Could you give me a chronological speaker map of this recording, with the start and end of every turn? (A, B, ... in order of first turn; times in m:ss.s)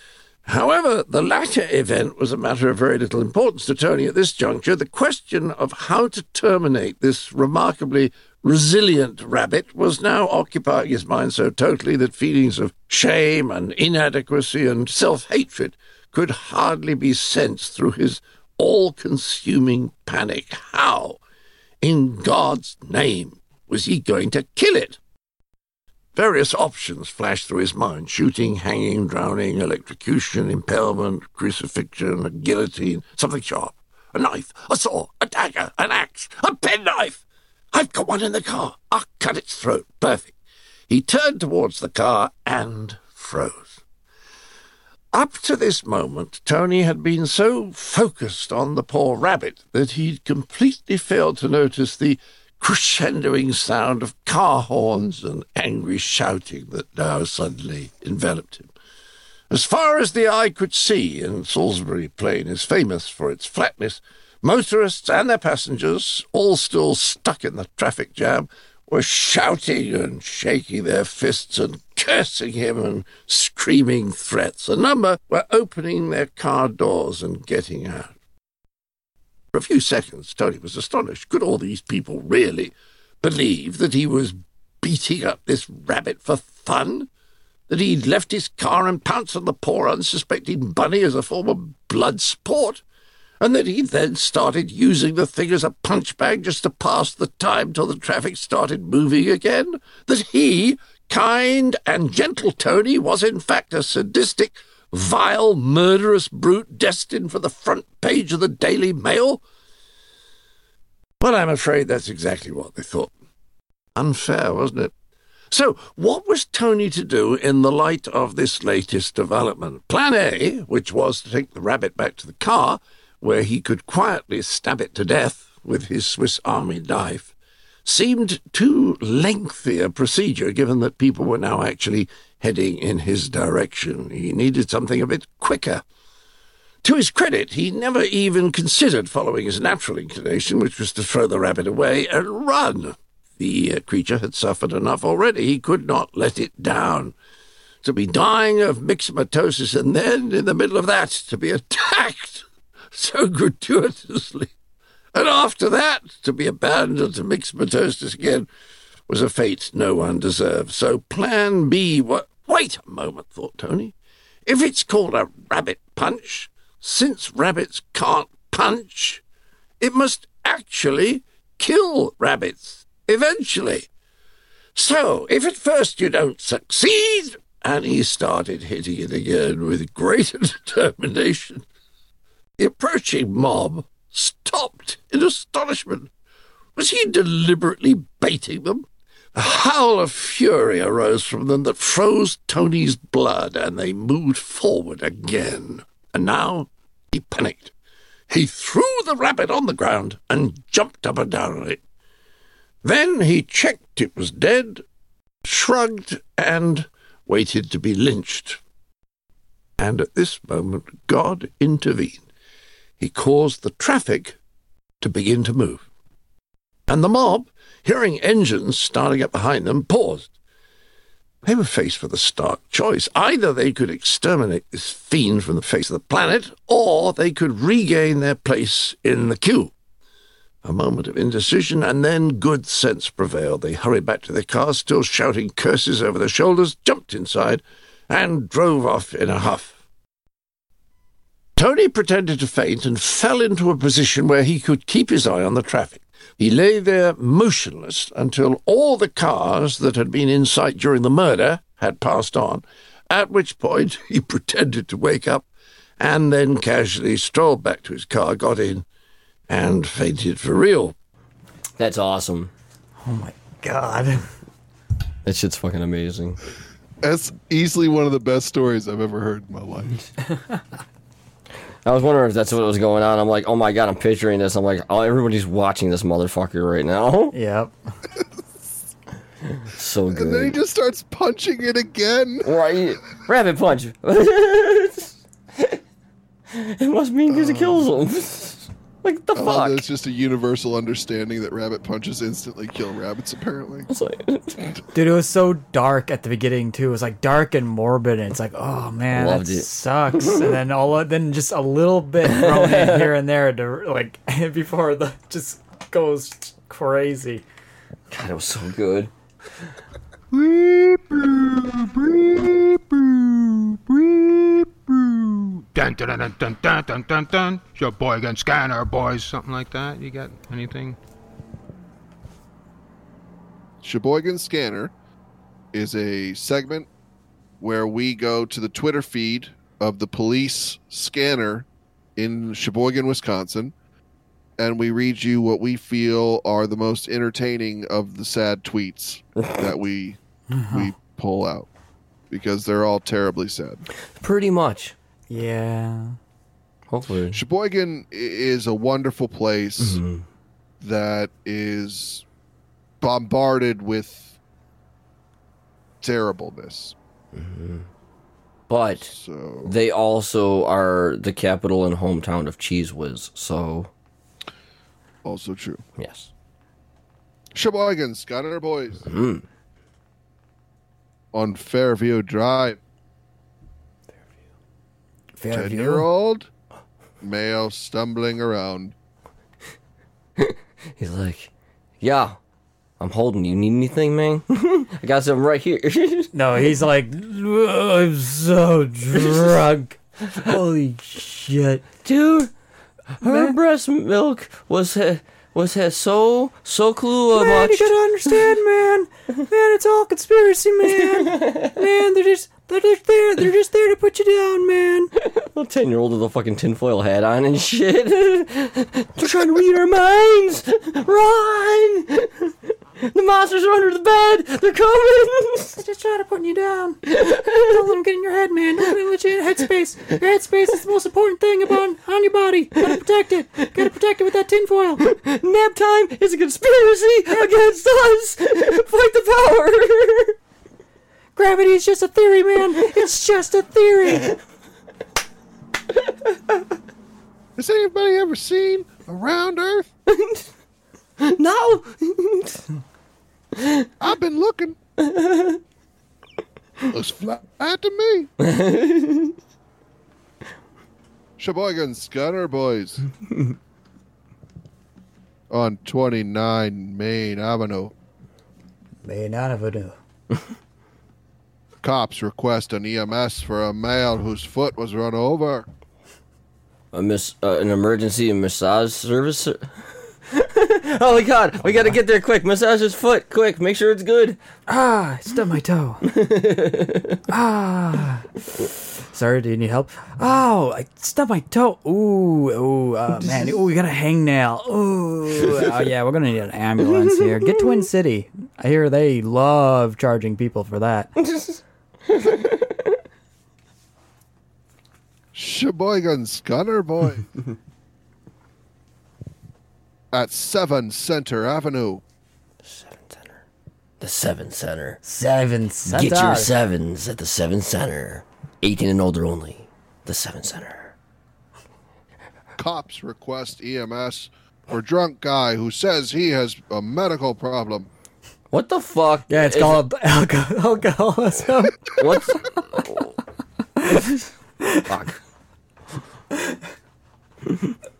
0:00.4-0:21.2 A
0:21.8-0:25.0 A
0:26.1-0:40.3 A
0:40.9-0:43.8 A
0:45.1-0:58.7 A
0:59.5-1:18.1 A
1:19.5-1:27.1 A
1:27.7-1:32.8 A
1:33.4-1:49.4 A
1:51.2-1:53.1 A
1:53.9-1:54.9 A
1:55.5-2:07.3 A
2:07.8-2:15.8 A
2:16.8-2:27.1 A
2:27.8-2:34.5 A
2:35.1-2:38.5 A
2:39.1-2:43.9 A
2:44.4-2:49.2 A
2:49.8-2:53.9 A
2:54.7-3:01.6 A
3:02.6-3:06.1 A
3:06.8-3:17.7 A
3:18.3-3:21.8 A
3:22.8-3:24.8 A
3:25.4-3:28.6 A
3:29.8-3:32.2 A
3:33.0-3:34.4 A
3:35.0-3:35.8 A
3:36.9-3:40.3 A
3:41.4-3:49.7 A
3:50.6-3:59.8 A
4:01.6-4:15.5 A
4:16.0-4:18.8 A
4:19.5-4:20.9 A
4:21.8-4:22.5 B
4:23.0-4:24.2 C
4:25.2-4:26.4 B
4:27.0-4:30.0 D
4:31.8-4:37.4 B
4:37.3-4:37.7 C
4:39.6-4:40.6 B
4:40.1-4:42.5 D
4:42.4-4:45.8 B
4:46.5-4:49.8 B
4:47.3-4:47.9 D
4:49.4-4:53.9 D
4:53.9-4:54.8 B
4:54.9-5:07.4 C
4:59.1-4:59.7 B
5:00.2-5:00.5 B
5:02.2-5:03.1 B
5:08.1-5:09.1 B
5:10.3-5:11.5 B
5:14.0-5:14.4 B
5:15.7-5:21.0 E
5:23.8-5:24.9 D
5:25.7-5:26.9 D
5:27.6-5:33.7 D
5:34.6-5:40.2 D
5:40.5-5:40.9 C
5:40.7-5:41.7 D
5:42.3-5:43.8 D
5:44.2-5:44.9 B
5:45.3-5:46.2 C
5:46.9-5:47.4 B
5:47.3-5:50.0 D
5:49.8-5:50.2 B
5:50.8-5:52.2 D
5:53.0-5:54.4 D
5:56.0-5:57.0 D
5:57.3-5:57.9 B
5:58.7-5:59.1 B
5:59.0-5:59.7 D
5:59.6-6:03.9 B
6:05.2-6:05.8 D
6:06.0-6:06.3 B
6:07.5-6:09.1 D
6:09.1-6:09.4 B
6:11.3-6:12.8 D
6:15.4-6:16.1 C
6:15.5-6:16.5 D
6:17.2-6:18.9 D
6:20.4-6:21.5 B
6:22.0-6:22.4 B
6:23.0-6:26.3 B
6:26.3-6:29.6 C
6:29.1-6:30.6 B
6:30.4-6:31.9 C
6:32.0-6:32.5 B
6:33.2-6:38.4 B
6:33.2-6:33.5 C
6:37.3-6:45.1 C
6:41.0-6:41.8 B
6:45.2-6:55.7 B
6:55.7-7:05.1 C
6:57.1-6:57.7 B
7:05.0-7:10.4 B
7:11.4-7:14.4 C
7:17.6-7:19.9 D
7:20.1-7:20.4 B
7:21.2-7:22.6 B
7:23.6-7:23.9 B
7:24.0-7:24.8 D
7:25.0-7:25.6 B
7:26.9-7:28.3 D
7:28.4-7:29.4 B
7:31.4-7:33.0 D
7:35.5-7:37.9 D
7:39.0-7:40.0 C
7:41.8-7:45.7 D
7:46.9-7:49.6 B
7:50.3-7:54.4 B
7:54.7-7:56.1 C
7:56.0-7:57.2 B
7:57.3-7:58.3 C
7:59.1-8:11.1 C
8:07.1-8:07.6 B
8:11.2-8:12.9 B
8:15.3-8:17.3 D
8:20.1-8:22.0 D
8:22.6-8:23.4 B
8:24.0-8:25.0 B
8:25.0-8:26.5 C
8:25.8-8:30.9 B
8:32.6-8:37.9 D
8:38.5-8:39.8 B
8:39.3-8:41.9 C
8:41.9-8:43.1 B
8:44.8-8:45.2 B